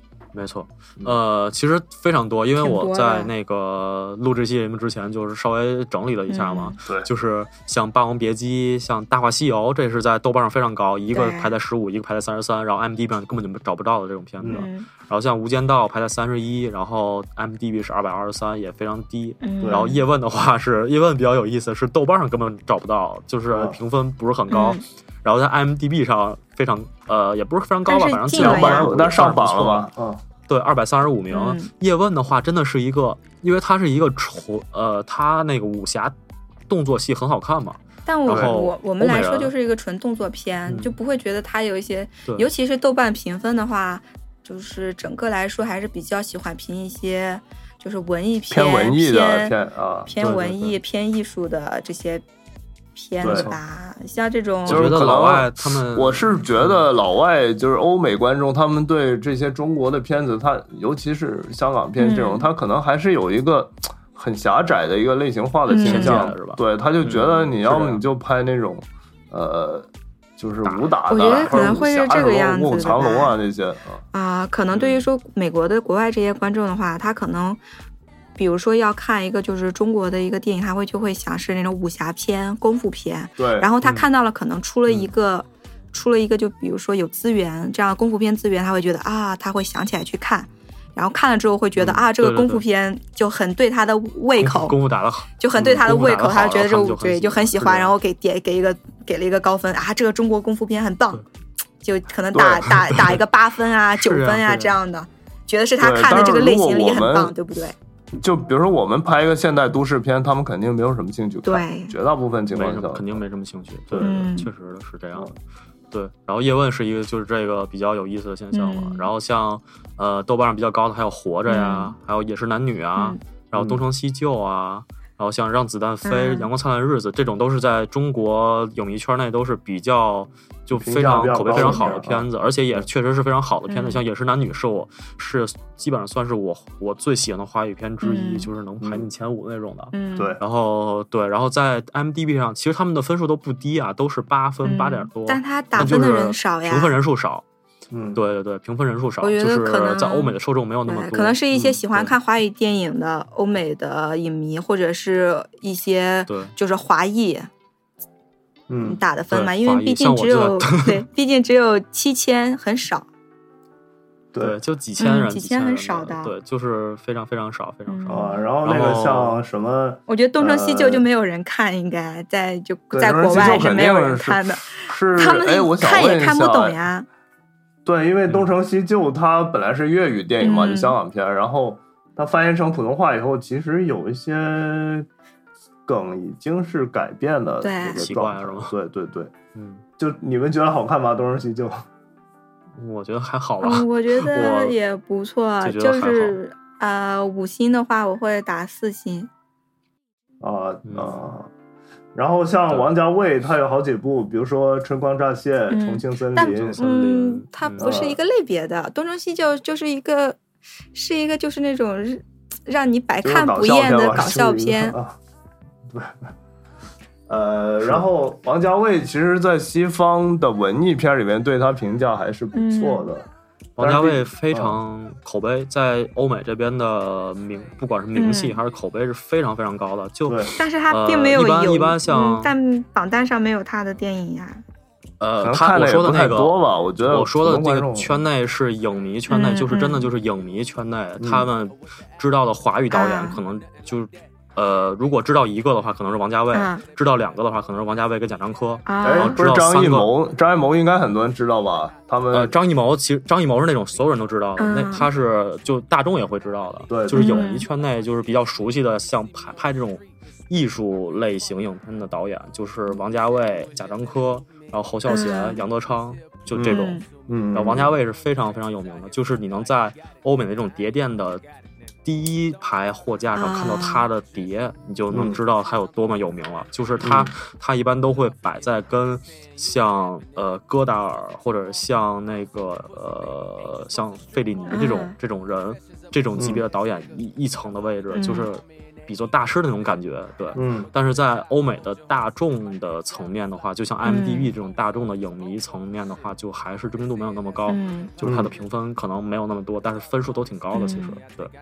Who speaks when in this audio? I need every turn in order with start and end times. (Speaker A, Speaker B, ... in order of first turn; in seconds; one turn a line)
Speaker A: 0.3-29.9
Speaker B: 2.6-3.3
Speaker B: 6.3-6.8
Speaker B: 11.1-11.5
Speaker C: 14.4-14.7
Speaker B: 14.5-14.9
Speaker B: 19.4-20.0
Speaker C: 19.6-19.9
Speaker C: 23.5-23.8
Speaker B: 24.5-24.8
Speaker B: 27.9-28.9
Speaker C: 28.3-30.2
Speaker A: 30.5-36.1
Speaker B: 31.3-31.7
Speaker A: 36.7-39.5
Speaker B: 38.0-49.5
Speaker C: 38.3-38.6
Speaker A: 40.7-40.9
Speaker C: 48.5-50.1
Speaker B: 50.0-52.2
Speaker A: 50.2-50.8
Speaker B: 52.9-54.9
Speaker C: 53.2-53.5
Speaker A: 53.2-53.6
Speaker A: 54.6-56.8
Speaker C: 54.6-74.0
Speaker B: 62.0-62.5
Speaker B: 65.7-66.3
Speaker A: 65.8-68.0
Speaker A: 70.6-71.8
Speaker B: 71.1-73.3
Speaker B: 74.1-77.6
Speaker A: 74.7-75.0
Speaker B: 78.4-94.7
Speaker C: 83.4-83.7
Speaker A: 91.8-92.6
Speaker A: 94.4-97.9
Speaker B: 95.4-101.2
Speaker B: 101.8-107.7
Speaker C: 102.3-102.7
Speaker A: 102.7-103.2
Speaker A: 103.9-104.8
Speaker C: 105.8-107.3
Speaker C: 108.2-113.2
Speaker B: 111.4-111.9
Speaker A: 112.5-115.3
Speaker C: 113.9-114.2
Speaker B: 114.0-114.5
Speaker A: 115.9-147.4
Speaker B: 118.5-119.1
Speaker B: 121.5-121.9
Speaker C: 123.5-123.8
Speaker B: 126.0-126.5
Speaker C: 130.8-132.2
Speaker B: 131.5-132.0
Speaker B: 133.7-134.0
Speaker B: 138.0-138.5
Speaker C: 138.8-139.1
Speaker B: 139.9-140.3
Speaker B: 144.6-146.9
Speaker C: 147.9-148.2
Speaker A: 148.1-152.1
Speaker B: 149.2-150.3
Speaker B: 150.8-157.5
Speaker A: 156.3-156.5
Speaker C: 158.7-159.0
Speaker B: 158.8-163.1
Speaker A: 159.3-161.0
Speaker A: 164.4-169.4
Speaker B: 165.0-166.3
Speaker B: 167.9-168.4
Speaker C: 168.1-171.1
Speaker B: 170.1-177.1
Speaker C: 172.9-176.8
Speaker C: 177.8-185.1
Speaker B: 180.4-180.9
Speaker C: 185.9-189.3
Speaker B: 187.6-188.0
Speaker A: 188.0-188.7
Speaker A: 189.5-189.8
Speaker C: 190.0-191.8
Speaker A: 192.8-194.8
Speaker B: 193.6-199.3
Speaker A: 195.6-196.4
Speaker C: 200.4-201.5
Speaker A: 200.8-201.2
Speaker C: 202.1-206.8
Speaker B: 205.7-210.4
Speaker A: 206.5-207.9
Speaker C: 207.8-208.2
Speaker B: 210.9-214.9
Speaker C: 213.2-215.2
Speaker C: 215.9-216.3
Speaker C: 217.3-223.3
Speaker B: 222.5-223.1
Speaker A: 223.8-232.5
Speaker C: 223.8-224.8
Speaker B: 228.2-228.6
Speaker C: 230.3-230.5
Speaker B: 230.6-234.6
Speaker A: 235.2-250.1
Speaker C: 235.4-238.1
Speaker B: 239.3-240.1
Speaker C: 241.2-241.5
Speaker B: 242.9-243.4
Speaker B: 246.5-246.8
Speaker B: 248.8-249.3
Speaker C: 249.0-252.5
Speaker A: 252.3-271.4
Speaker B: 254.6-255.1
Speaker C: 256.9-257.4
Speaker B: 257.1-257.7
Speaker B: 265.1-265.6
Speaker C: 266.5-268.0
Speaker B: 266.6-267.0
Speaker A: 272.0-301.5
Speaker B: 273.3-274.1
Speaker C: 275.1-275.4
Speaker C: 277.0-277.3
Speaker B: 284.7-285.1
Speaker C: 286.4-286.6
Speaker B: 288.1-288.5
Speaker C: 290.5-290.9
Speaker B: 294.0-294.5
Speaker B: 297.7-298.1
Speaker C: 298.2-298.5
Speaker B: 300.7-301.2